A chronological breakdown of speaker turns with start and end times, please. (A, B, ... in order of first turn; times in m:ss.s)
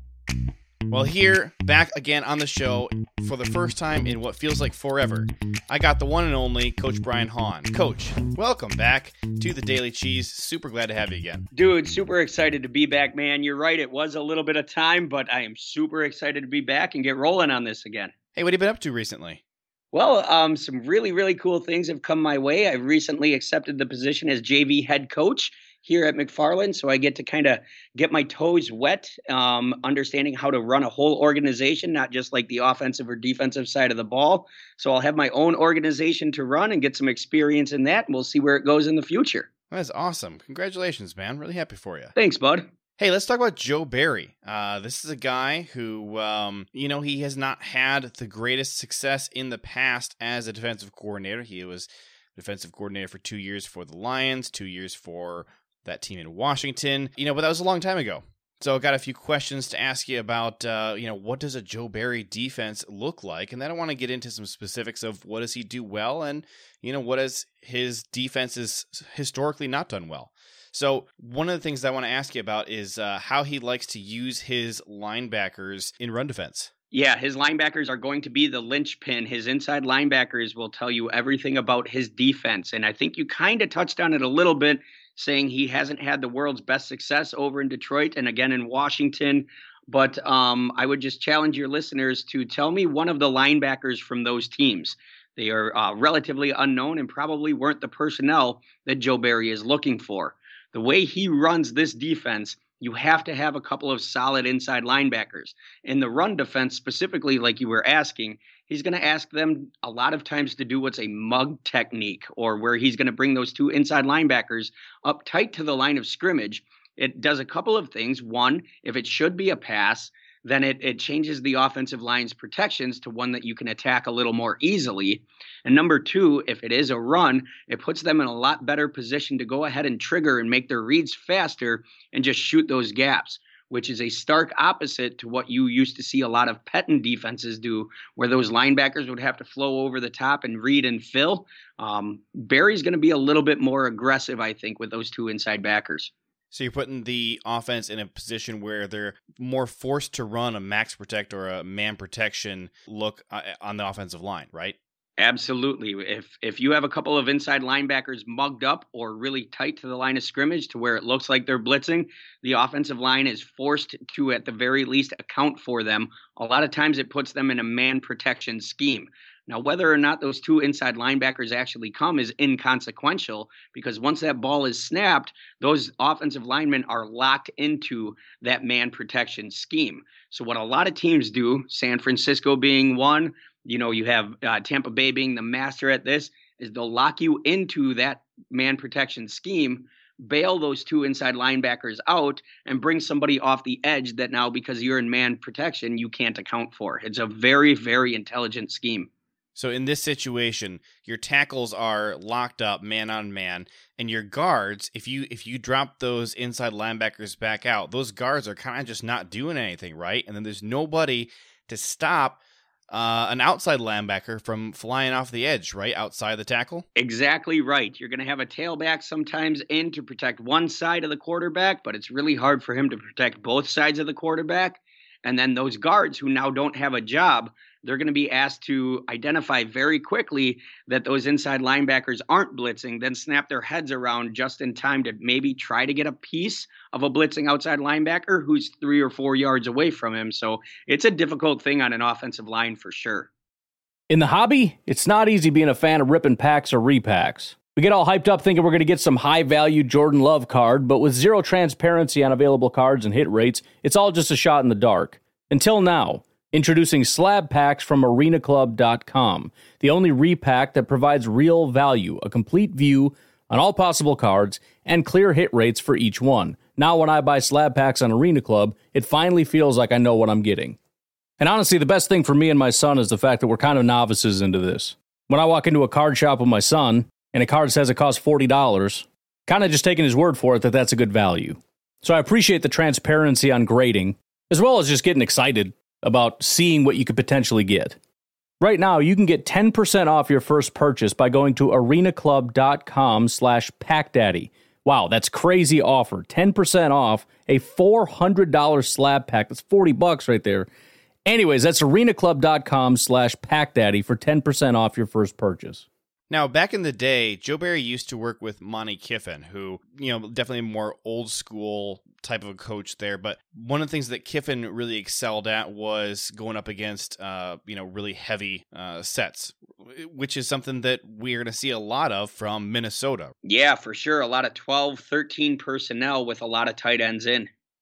0:00.9-0:11.5 A
0:11.5-0:18.1 B
0:18.3-0:19.4 A
0:19.9-0:39.5 B
0:39.7-0:42.1 A
0:42.2-0:42.6 B
0:43.0-1:16.7 A
1:16.9-2:26.1 B
2:26.5-2:34.8 A
2:35.2-3:19.1 B
3:19.5-3:36.8 A
3:37.0-4:03.3 B
4:04.1-4:30.8 C
4:31.4-4:48.0 C
4:48.6-5:00.7 C
5:01.2-5:05.8 C
5:06.3-5:23.3 A
5:23.4-5:27.5 B